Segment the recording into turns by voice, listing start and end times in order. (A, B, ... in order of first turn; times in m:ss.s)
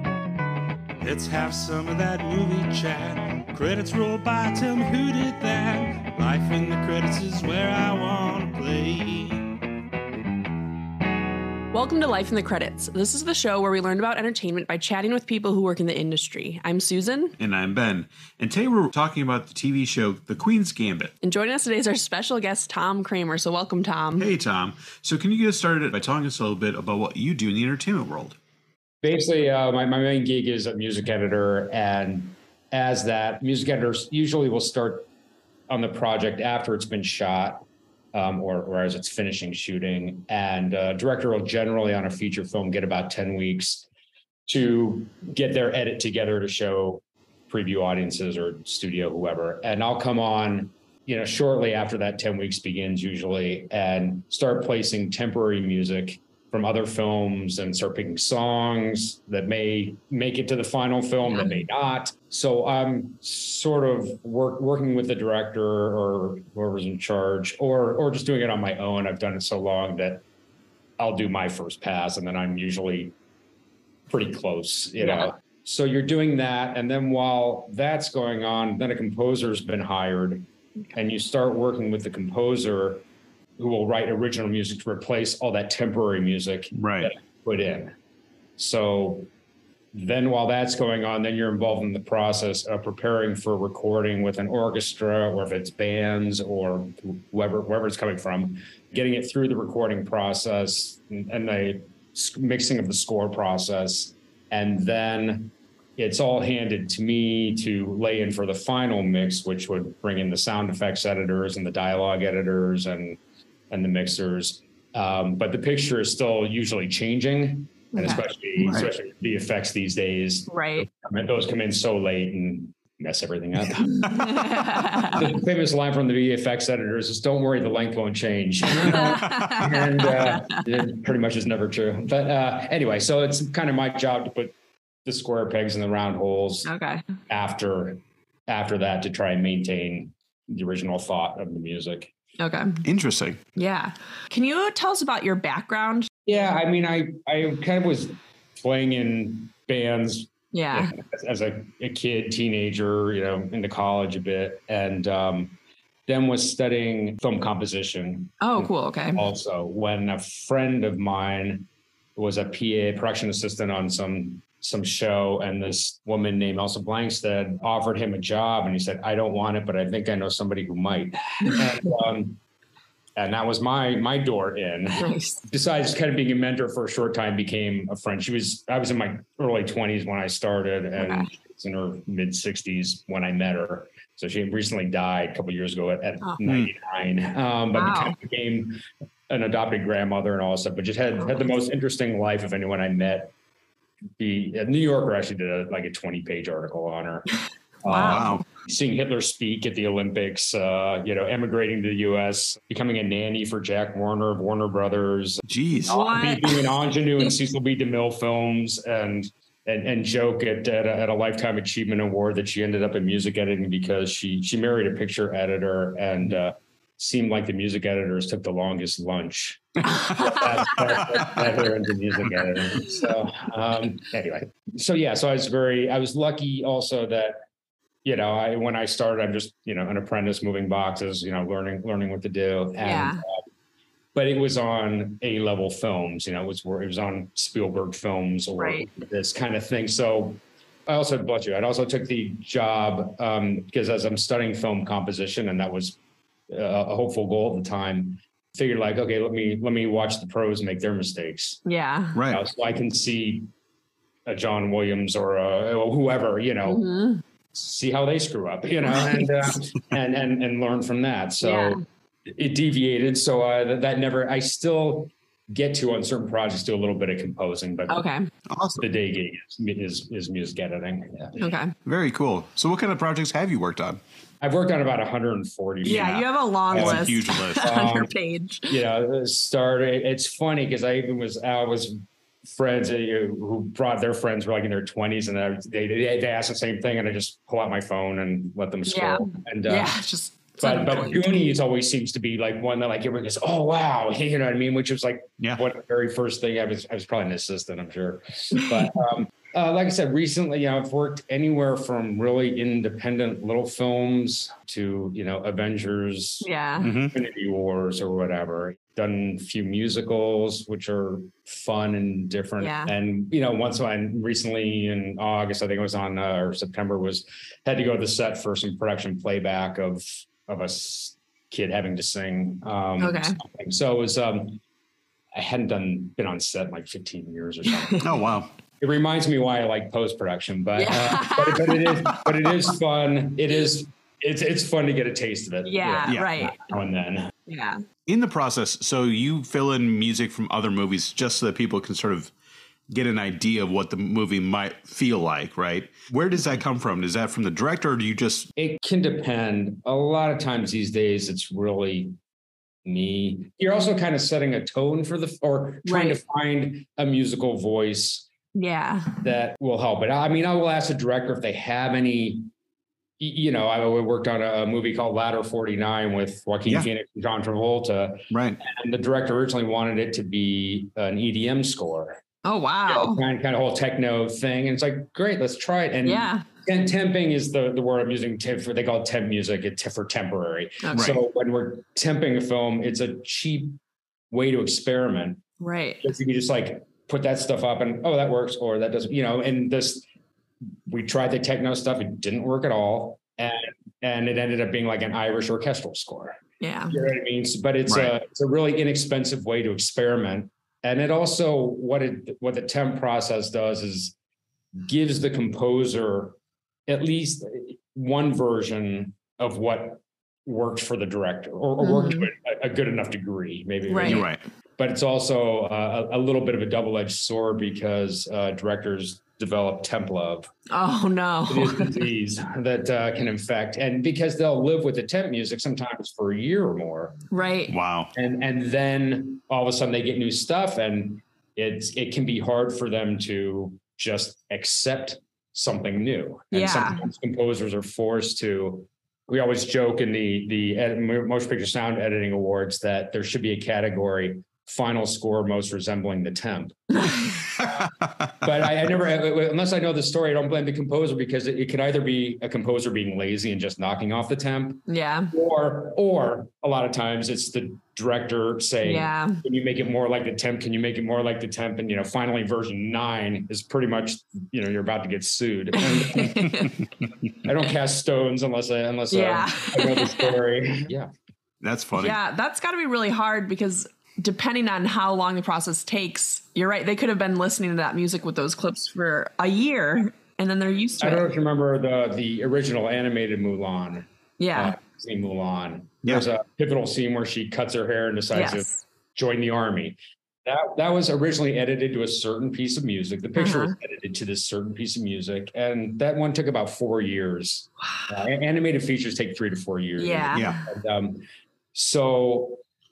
0:01.0-0:09.4 A
0:11.7-0:17.3 B
0:17.4-0:21.1 C
0:21.2-0:24.3 B
0:24.2-0:28.4 C
0:29.0-0:35.1 D
0:35.7-0:43.9 D
0:44.5-1:10.2 D
1:01.3-1:01.7 B
1:11.0-1:13.1 D
1:14.1-1:23.0 D
1:15.0-1:15.3 B
1:23.6-1:27.9 D
1:26.7-1:27.1 C
1:28.6-1:29.3 D
1:29.9-1:53.2 D
1:53.7-2:04.1 D
1:57.9-1:58.2 B
1:58.6-1:58.9 C
2:00.5-2:00.9 B
2:03.8-2:05.3 B
2:05.1-2:14.5 D
2:08.8-2:10.6 B
2:09.2-2:09.5 C
2:15.0-2:16.7 D
2:16.6-2:17.0 B
2:17.3-2:22.1 D
2:22.4-2:22.8 B
2:22.8-2:23.4 C
2:23.6-2:26.2 B
2:26.3-2:35.6 D
2:30.5-2:30.9 B
2:36.1-2:52.4 D
2:38.4-2:39.3 B
2:53.2-3:13.3 D
2:55.0-2:55.4 B
3:01.0-3:01.3 B
3:06.4-3:06.7 C
3:07.7-3:08.2 B
3:11.2-3:11.5 B
3:14.2-3:17.3 D
3:17.8-3:47.4 D
3:17.8-3:18.4 B
3:18.0-3:18.4 C
3:25.4-3:26.0 C
3:25.9-3:27.3 B
3:39.8-3:40.4 B
3:48.0-3:53.4 D
3:52.8-3:53.2 B
3:54.1-4:06.0 D
3:58.6-3:58.9 B
4:06.5-4:11.6 D
4:11.6-4:12.2 B
4:12.1-4:12.4 C
4:12.3-4:13.5 D
4:14.2-4:16.8 D
4:16.6-4:17.2 B
4:17.5-4:28.0 D
4:18.8-4:19.6 B
4:21.4-4:21.8 B
4:27.9-4:28.3 B
4:28.5-4:28.8 C
4:28.8-4:31.4 D
4:31.4-4:31.7 B
4:31.8-4:34.0 C
4:34.4-4:38.1 D
4:35.8-4:37.7 C
4:35.8-4:38.7 B
4:38.7-4:49.9 D
4:48.9-4:51.4 B
4:50.6-5:06.5 D
4:58.5-4:58.8 B
5:06.4-5:06.9 B
5:06.8-5:07.2 C
5:07.1-5:24.6 D
5:12.6-5:12.9 B
5:23.0-5:23.4 B
5:25.3-5:28.0 D
5:27.6-5:28.0 B
5:28.0-5:28.5 C
5:28.8-5:37.3 D
5:30.7-5:32.3 B
5:35.6-5:36.6 B
5:37.5-5:37.8 B
5:38.1-5:42.3 C
5:42.9-5:48.5 C
5:48.6-5:52.1 D
5:52.8-5:58.3 D
5:55.8-5:56.2 B
5:58.5-5:59.2 B
5:59.2-6:02.5 D
6:03.2-6:12.2 D
6:08.3-6:08.6 C
6:12.4-6:13.2 B
6:12.9-6:23.8 D
6:16.0-6:16.4 B
6:20.8-6:21.2 B
6:20.9-6:21.2 C
6:24.3-6:25.4 D
6:25.6-6:26.0 B
6:26.0-6:30.0 D
6:30.9-6:36.4 D
6:36.6-6:37.0 B
6:36.9-6:44.1 D
6:37.9-6:38.1 C
6:44.8-7:00.5 D
6:51.8-6:52.3 B
6:53.9-6:54.2 B
6:54.0-6:54.4 C
7:00.7-7:02.0 B
7:01.5-7:07.2 D
7:07.3-7:07.7 B
7:07.7-7:08.1 C
7:08.1-7:26.8 D
7:16.5-7:17.0 B
7:26.9-7:27.4 B
7:27.5-7:46.7 D
7:27.6-7:28.3 C
7:34.9-7:35.3 B
7:38.8-7:39.4 B
7:45.8-7:46.8 B
7:47.4-7:51.1 D
7:49.1-7:50.4 B
7:51.6-7:52.2 C
7:52.0-8:01.3 B
8:01.0-8:22.6 D
8:04.4-8:04.7 B
8:08.3-8:08.8 B
8:13.4-8:13.7 B
8:20.0-8:20.7 B
8:20.3-8:20.6 C